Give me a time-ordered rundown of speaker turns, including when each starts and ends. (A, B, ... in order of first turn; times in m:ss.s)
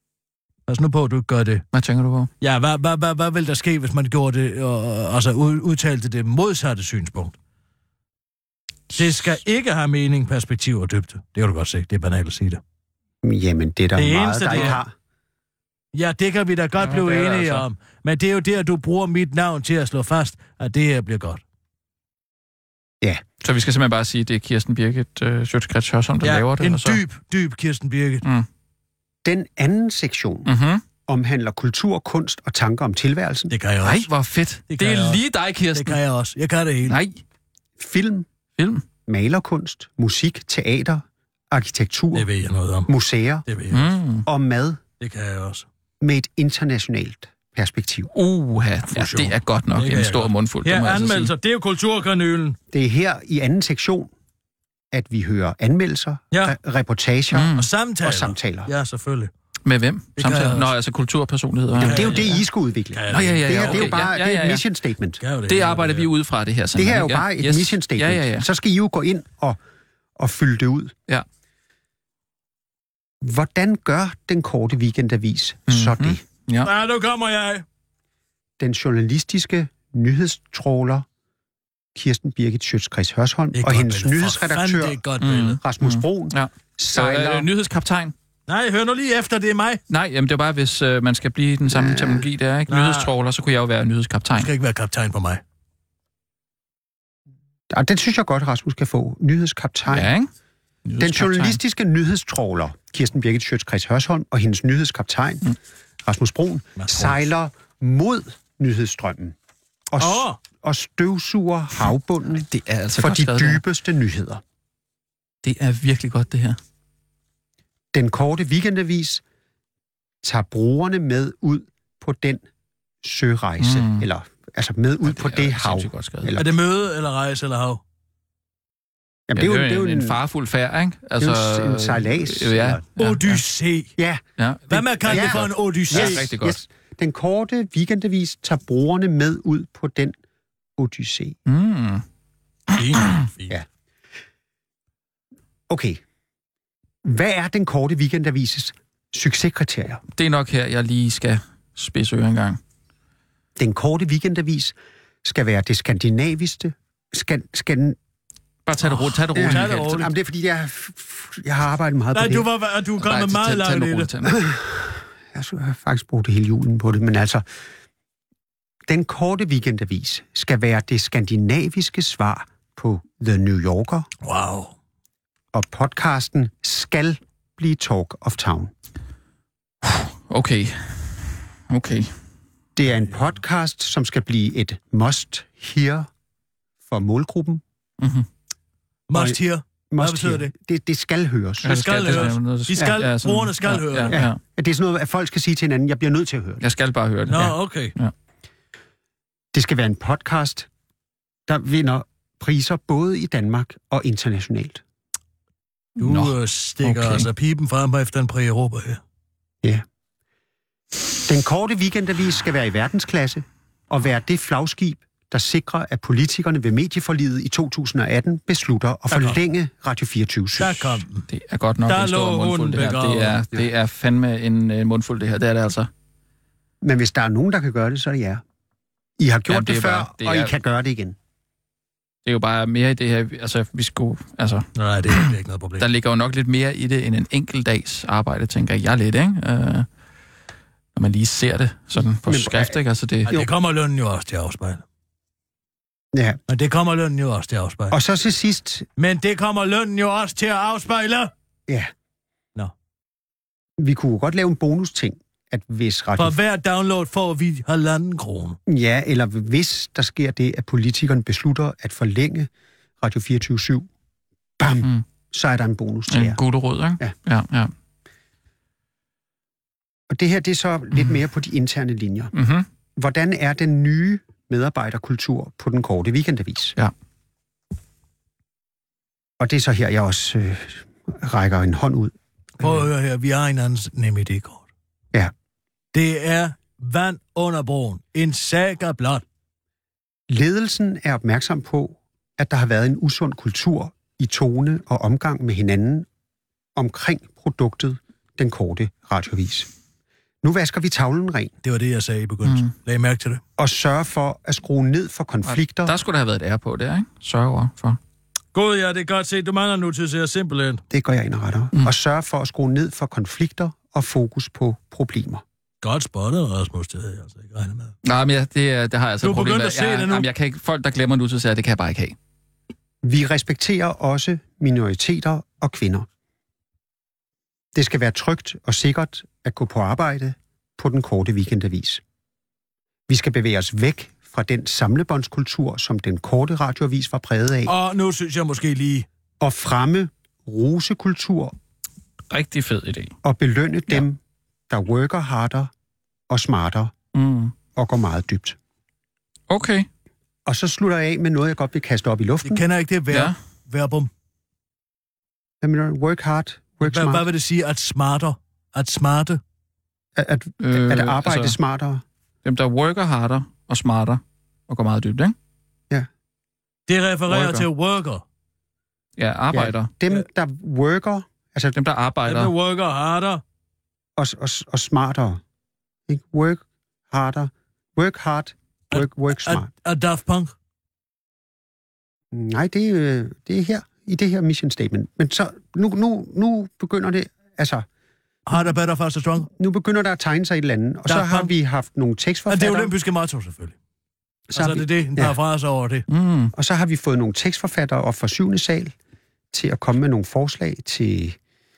0:00.7-0:01.6 A
0:01.7-0:02.3 B
0:02.4-0:07.3 A
0:08.9-0:12.6 A
0:13.2-0:14.9 C
0:14.0-0:14.8 A
0:15.9-0:21.4 A
0:16.8-0:17.6 B
0:23.4-0:27.0 B
0:26.2-0:28.2 A
0:29.2-0:30.5 C
0:30.5-0:30.8 B
0:31.1-0:33.5 C
0:33.5-0:34.1 A
0:33.8-0:36.0 B
0:34.7-0:35.2 A
0:35.7-0:37.0 A
0:36.9-0:37.2 B
0:37.8-0:38.3 C
0:38.6-0:38.8 B
0:39.1-0:42.3 C
0:42.1-0:42.9 A
0:42.9-0:43.5 C
0:43.5-0:44.0 A
0:43.7-0:44.3 B
0:44.3-0:44.8 C
0:45.0-0:45.7 A
0:46.0-0:48.1 C
0:48.1-0:51.3 B
0:48.9-0:52.6 A
0:52.7-0:54.1 C
0:54.9-0:58.7 C
0:57.3-0:57.7 B
0:57.6-0:59.3 A
0:59.6-1:02.4 B
1:00.2-1:00.7 A
1:01.8-1:05.2 C
1:01.8-1:02.4 A
1:02.9-1:04.0 A
1:03.1-1:04.6 B
1:05.2-1:06.1 A
1:05.5-1:08.5 B
1:06.8-1:09.6 C
1:10.2-1:10.9 C
1:13.2-1:16.2 C
1:15.7-1:16.7 B
1:16.6-1:17.6 A
1:18.6-1:21.1 C
1:22.0-1:25.0 C
1:23.6-1:25.6 A
1:25.2-1:28.1 B
1:25.6-1:27.5 C
1:28.5-1:29.8 A
1:29.9-1:34.5 B
1:31.7-1:32.3 C
1:32.7-1:33.1 A
1:34.3-1:35.4 A
1:37.7-1:40.1 C
1:39.9-1:40.3 B
1:40.9-1:41.6 B
1:41.0-1:45.4 C
1:46.0-1:49.4 C
1:46.8-1:47.2 A
1:49.9-1:54.4 C
1:50.0-1:50.4 A
1:52.4-1:53.6 B
1:55.4-1:56.6 B
1:57.9-1:59.2 C
2:00.2-2:02.4 C
2:03.0-2:06.6 C
2:03.6-2:04.1 B
2:05.0-2:06.4 B
2:06.4-2:07.8 A
2:09.3-2:10.2 C
2:09.4-2:13.4 B
2:11.2-2:12.8 C
2:13.0-2:13.9 A
2:14.4-2:16.6 B
2:14.7-2:16.3 A
2:15.0-2:20.2 C
2:20.8-2:21.4 C
2:21.5-2:22.0 B
2:22.7-2:23.2 B
2:22.8-2:23.6 A
2:25.7-2:26.0 C
2:27.0-2:30.0 C
2:30.2-2:32.6 B
2:33.6-2:38.0 C
2:38.7-2:40.0 B
2:39.3-2:42.5 C
2:39.4-2:40.1 A
2:42.1-2:44.1 A
2:43.0-2:44.4 B
2:44.2-2:47.4 C
2:48.9-2:54.1 C
2:54.2-2:54.7 A
2:55.5-2:58.7 C
2:59.8-3:02.1 B
3:02.8-3:06.1 C
3:06.9-3:07.6 C
3:08.0-3:08.3 B
3:09.1-3:10.5 A
3:09.1-3:09.4 C
3:09.9-3:13.0 C
3:11.6-3:14.4 B
3:11.6-3:14.2 A
3:14.0-3:16.7 C
3:16.6-3:18.1 B
3:17.3-3:17.9 A
3:19.5-3:20.7 C
3:21.5-3:24.8 C
3:26.0-3:29.0 A
3:26.0-3:26.3 B
3:26.8-3:27.3 B
3:31.2-3:41.0 C
3:39.1-3:39.4 A
3:40.6-3:41.3 A
3:41.3-3:45.9 B
3:41.9-3:43.4 A
3:46.8-3:48.4 C
3:49.2-3:51.2 C
3:49.5-3:50.5 B
3:52.3-3:59.9 B
3:54.8-3:55.9 A
4:01.0-4:03.4 B
4:02.2-4:03.5 C
4:03.3-4:04.8 A
4:06.1-4:06.4 C
4:06.5-4:08.0 A
4:07.9-4:08.9 C
4:09.0-4:11.3 A
4:13.8-4:16.4 C
4:16.2-4:18.6 A
4:18.7-4:22.5 C
4:23.0-4:23.9 C
4:24.6-4:26.4 C
4:26.1-4:27.7 B
4:30.1-4:32.3 C
4:32.3-4:32.7 B
4:33.0-4:36.8 C
4:39.4-4:42.9 C
4:42.6-4:44.6 A
4:45.9-4:49.2 A
4:50.3-4:56.1 C
4:56.8-4:59.7 C
5:00.4-5:01.5 C
5:01.6-5:03.4 A
5:02.4-5:02.7 B
5:03.6-5:06.0 C
5:05.4-5:08.0 B
5:08.5-5:10.8 A
5:10.9-5:15.4 C
5:15.8-5:17.9 A
5:18.0-5:22.2 B
5:19.2-5:20.3 A
5:23.0-5:26.1 C
5:27.8-5:32.0 C
5:33.1-5:37.7 C
5:37.7-5:39.1 A
5:39.4-5:41.6 C
5:42.3-5:43.1 B
5:43.2-5:44.2 C
5:44.7-5:45.7 C
5:46.3-5:46.9 C
5:47.1-5:47.5 B
5:47.8-5:48.6 C
5:49.5-5:49.9 B
5:50.5-5:52.6 C
5:52.4-5:54.1 A
5:55.6-5:57.3 C
5:56.8-5:59.4 A
6:00.2-6:02.0 C
6:00.6-6:01.6 B
6:02.4-6:05.4 B
6:06.9-6:08.2 A
6:07.3-6:07.6 B
6:09.2-6:09.9 B
6:09.5-6:11.8 C
6:11.7-6:12.5 B
6:12.3-6:13.4 A
6:14.2-6:15.4 C
6:16.1-6:19.7 C
6:18.9-6:20.5 A
6:22.3-6:27.9 C
6:28.5-6:29.5 A
6:29.5-6:32.9 C
6:31.1-6:31.5 A
6:32.5-6:33.8 A
6:34.5-6:35.4 C
6:34.6-6:36.0 A
6:36.1-6:36.5 B
6:36.5-6:38.9 C
6:39.5-6:41.4 C